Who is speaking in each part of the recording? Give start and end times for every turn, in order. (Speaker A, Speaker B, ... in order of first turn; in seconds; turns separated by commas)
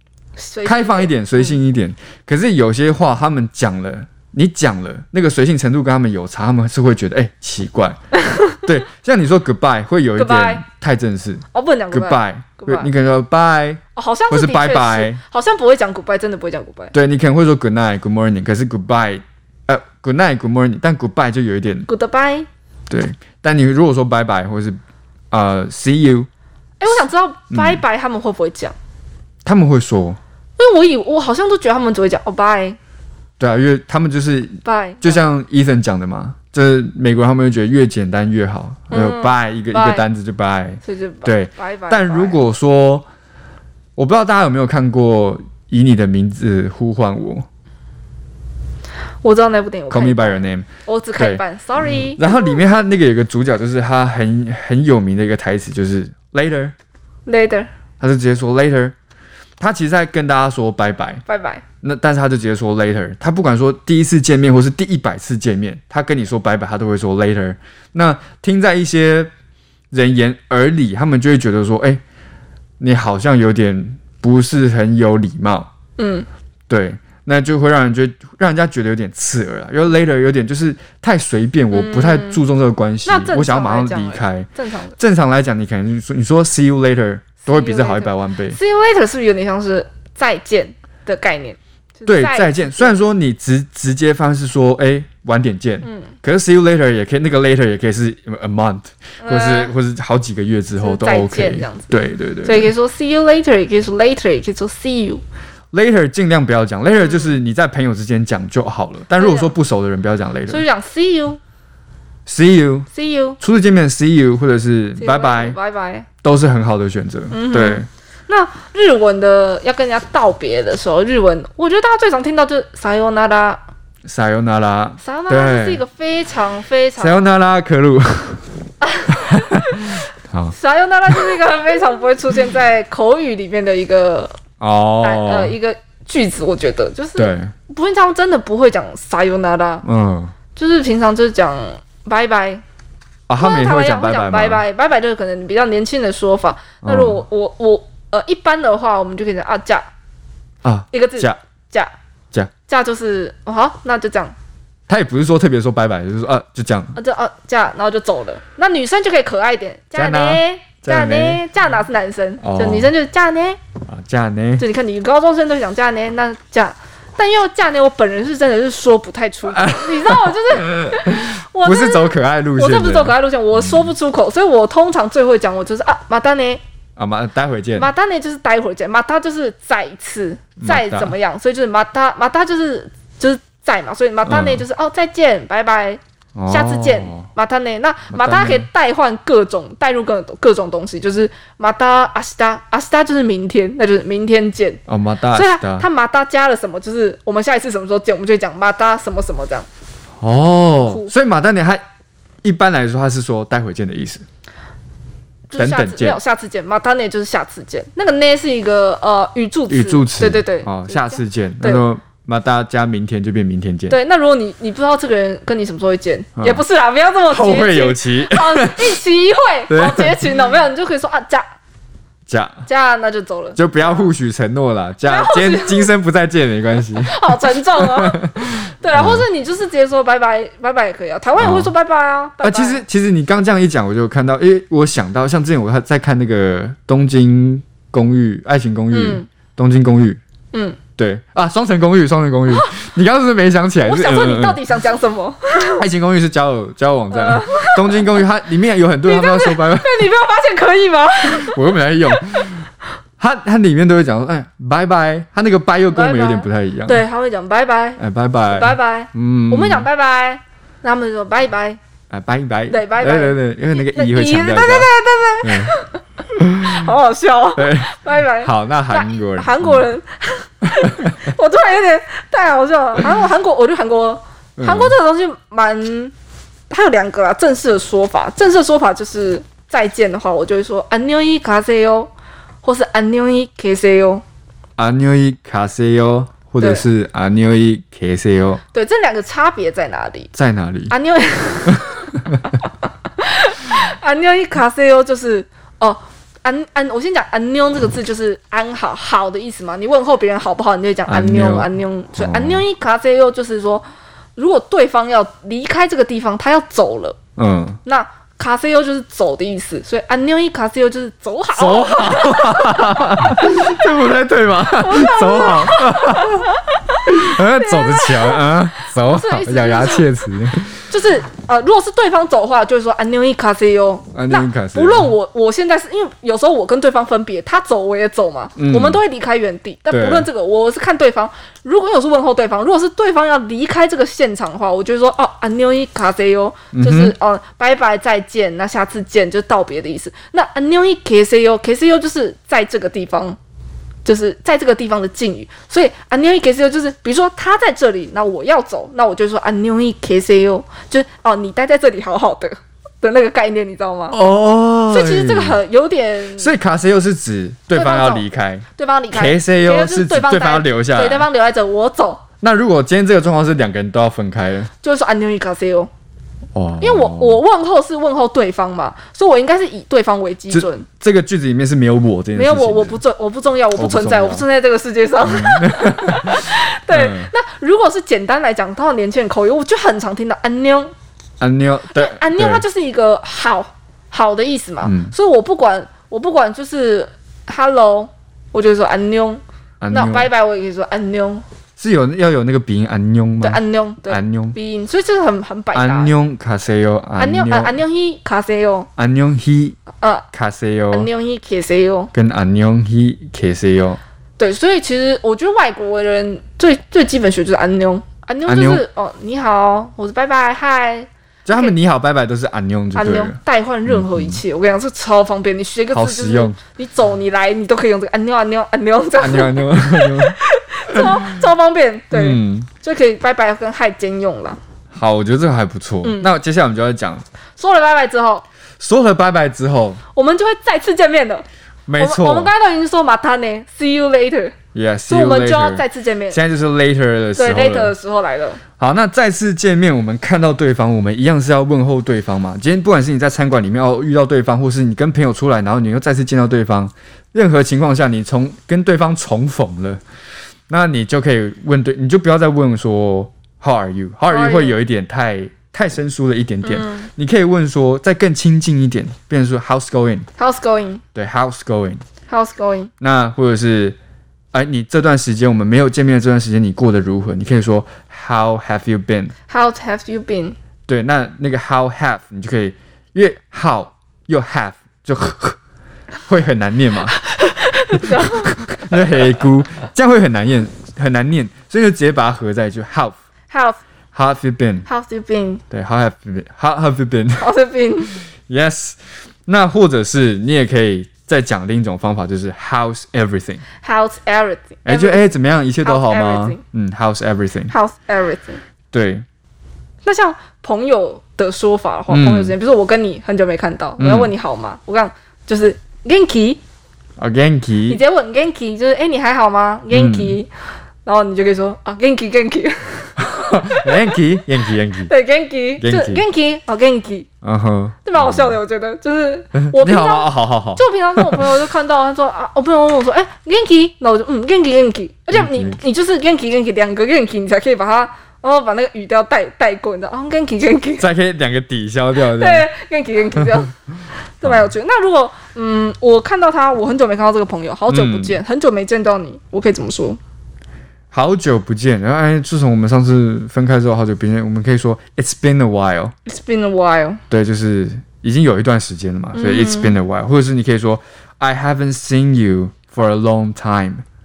Speaker A: 0.4-1.5, Speaker B: 0.6-8.0, Speaker A: 8.2-8.6, Speaker B: 8.5-15.2, Speaker A: 10.2-10.6, Speaker A: 11.5-12.9, Speaker A: 13.9-16.9, Speaker B: 16.9-21.9, Speaker A: 21.9-22.5, Speaker B: 22.9-24.8, Speaker B: 25.3-26.3, Speaker A: 26.8-28.7, Speaker B: 27.5-27.8, Speaker B: 29.4-30.2, Speaker A: 30.6-32.8, Speaker B: 33.4-43.0, Speaker A: 34.6-35.2, Speaker A: 38.9-40.0, Speaker A: 40.8-42.4, Speaker B: 44.0-47.5, Speaker A: 49.2-52.6, Speaker B: 49.9-56.7, Speaker A: 57.2-57.7, Speaker B: 58.0-58.9, Speaker B: 59.6-61.2, Speaker A: 61.3-61.6, Speaker B: 61.8-69.3, Speaker B: 69.9-72.0, Speaker B: 72.8-75.7, Speaker A: 76.0-76.3, Speaker B: 76.7-88.6, Speaker A: 81.7-82.4, Speaker A: 83.0-85.0, Speaker A: 87.4-93.0, Speaker B: 92.0-102.7, Speaker A: 95.8-96.1, Speaker A: 99.2-99.7, Speaker A: 100.8-101.9, Speaker A: 102.4-105.2, Speaker B: 105.7-110.6, Speaker A: 107.0-107.3, Speaker A: 109.2-109.5, Speaker A: 110.5-111.4, Speaker B: 112.3-112.9, Speaker A: 112.9-113.4, Speaker B: 113.4-115.6, Speaker A: 115.0-116.1, Speaker B: 116.2-117.9, Speaker A: 117.3-123.6, Speaker B: 124.0-125.8, Speaker A: 125.0-127.2, Speaker B: 127.0-128.4, Speaker A: 128.8-129.9, Speaker B: 129.1-130.6, Speaker A: 130.5-134.4, Speaker B: 134.6-135.5, Speaker A: 135.0-139.8, Speaker B: 137.2-137.5, Speaker B: 139.8-140.3, Speaker A: 140.5-142.6, Speaker B: 143.3-144.6, Speaker A: 143.4-149.9, Speaker B: 146.8-147.2, Speaker B: 150.6-151.4, Speaker A: 150.9-151.9, Speaker A: 152.7-154.3, Speaker B: 154.9-157.0, Speaker A: 156.9-163.6, Speaker B: 159.9-161.4, Speaker B: 162.4-162.9, Speaker B: 163.9-164.6, Speaker A: 164.6-176.6, Speaker B: 169.5-173.9, Speaker B: 177.0-177.9, Speaker A: 177.8-199.7, Speaker B: 180.6-181.1, Speaker B: 184.2-184.6, Speaker B: 186.3-187.3, Speaker B: 188.1-188.7, Speaker B: 194.9-195.9, Speaker B: 200.2-201.8, Speaker A: 200.8-201.1, Speaker B: 202.4-204.2, Speaker A: 205.5-211.8, Speaker B: 205.6-206.2, Speaker B: 209.7-214.0, Speaker A: 213.9-221.5, Speaker B: 216.4-216.6, Speaker B: 217.3-218.9, Speaker B: 219.7-220.3, Speaker B: 222.3-222.6, Speaker A: 222.7-224.1, Speaker B: 223.6-229.2, Speaker A: 225.0-225.9, Speaker A: 227.0-232.8, Speaker B: 231.4-231.7, Speaker B: 232.4-240.2, Speaker A: 238.9-239.3, Speaker A: 240.5-240.8, Speaker B: 241.0-244.6, Speaker A: 243.8-245.8, Speaker B: 245.7-250.0, Speaker A: 247.1-248.2, Speaker A: 249.0-251.6, Speaker B: 251.3-252.7, Speaker B: 253.2-257.0, Speaker A: 255.9-261.8, Speaker B: 258.0-259.9, Speaker B: 262.1-265.7, Speaker A: 262.7-266.0, Speaker B: 266.4-266.9, Speaker A: 266.6-276.1, Speaker B: 267.6-269.9, Speaker B: 270.6-271.2, Speaker B: 274.6-274.9, Speaker A: 276.7-282.1, Speaker A: 282.6-284.2, Speaker B: 284.8-288.6, Speaker A: 288.7-290.3, Speaker B: 290.3-290.9, Speaker A: 290.9-303.8, Speaker B: 291.7-292.4, Speaker B: 301.1-302.6, Speaker A: 304.4-307.2, Speaker B: 307.4-307.8, Speaker A: 307.8-313.9, Speaker B: 311.5-316.5, Speaker A: 314.6-320.1, Speaker B: 317.0-320.9, Speaker A: 320.9-343.4, Speaker B: 324.1-325.1, Speaker B: 328.6-329.0, Speaker B: 329.9-330.3, Speaker B: 336.7-337.1, Speaker A: 344.0-354.2, Speaker B: 354.1-355.6, Speaker A: 354.9-356.5, Speaker B: 356.4-361.3, Speaker A: 357.7-362.2, Speaker B: 362.4-364.7, Speaker A: 364.8-365.9, Speaker B: 366.5-367.4, Speaker A: 366.8-370.9, Speaker B: 370.5-373.0, Speaker A: 372.3-380.9, Speaker B: 373.8-374.4, Speaker B: 375.2-377.3, Speaker B: 381.4-382.6, Speaker A: 381.9-391.4, Speaker B: 384.8-385.1, Speaker B: 389.8-390.3, Speaker B: 391.8-394.6, Speaker A: 393.4-396.1, Speaker B: 395.7-397.8, Speaker A: 397.2-398.9, Speaker B: 399.0-399.8, Speaker A: 399.9-400.3, Speaker B: 400.3-401.1, Speaker A: 400.9-402.1, Speaker B: 402.1-404.0, Speaker A: 404.4-411.7, Speaker B: 408.4-408.8, Speaker B: 411.4-414.4, Speaker A: 412.9-424.6, Speaker B: 415.9-416.6, Speaker B: 419.2-421.3, Speaker B: 422.1-422.7, Speaker B: 424.9-427.2, Speaker A: 426.0-426.3, Speaker A: 427.6-428.4, Speaker B: 428.8-430.0, Speaker A: 430.1-431.4, Speaker B: 431.9-432.5, Speaker A: 432.0-434.6, Speaker B: 434.7-437.9, Speaker A: 435.1-436.4, Speaker A: 437.4-438.6, Speaker B: 438.8-450.0, Speaker B: 450.7-460.3, Speaker A: 454.3-454.8, Speaker A: 456.6-457.1, Speaker A: 460.4-461.0, Speaker B: 461.1-462.0, Speaker A: 462.3-462.9, Speaker B: 463.0-464.0, Speaker B: 464.5-469.3, Speaker A: 469.5-470.6, Speaker B: 470.9-475.6, Speaker B: 476.3-477.2, Speaker A: 477.1-479.1, Speaker B: 477.9-483.2, Speaker A: 483.5-483.8, Speaker B: 484.1-484.9, Speaker A: 484.9-485.6, Speaker B: 485.7-487.5, Speaker A: 487.4-488.2, Speaker B: 488.5-493.6, Speaker A: 493.8-495.2, Speaker B: 494.8-497.7, Speaker A: 495.8-496.6, Speaker A: 497.7-498.6, Speaker B: 498.9-499.2, Speaker A: 500.0-506.6, Speaker B: 502.1-502.5, Speaker B: 504.0-504.3, Speaker B: 507.2-508.0, Speaker A: 507.9-510.5, Speaker B: 509.9-510.4, Speaker A: 511.0-514.2, Speaker B: 513.2-515.1, Speaker A: 515.0-517.3, Speaker B: 515.8-516.2, Speaker B: 517.4-518.5, Speaker A: 518.0-531.0, Speaker B: 519.5-521.6, Speaker B: 525.3-525.8, Speaker B: 531.0-532.7, Speaker A: 532.1-533.7, Speaker A: 534.4-540.2, Speaker B: 534.4-534.7, Speaker B: 537.9-538.4, Speaker B: 541.1-546.1, Speaker A: 546.2-547.2, Speaker B: 547.3-554.0, Speaker A: 549.3-549.9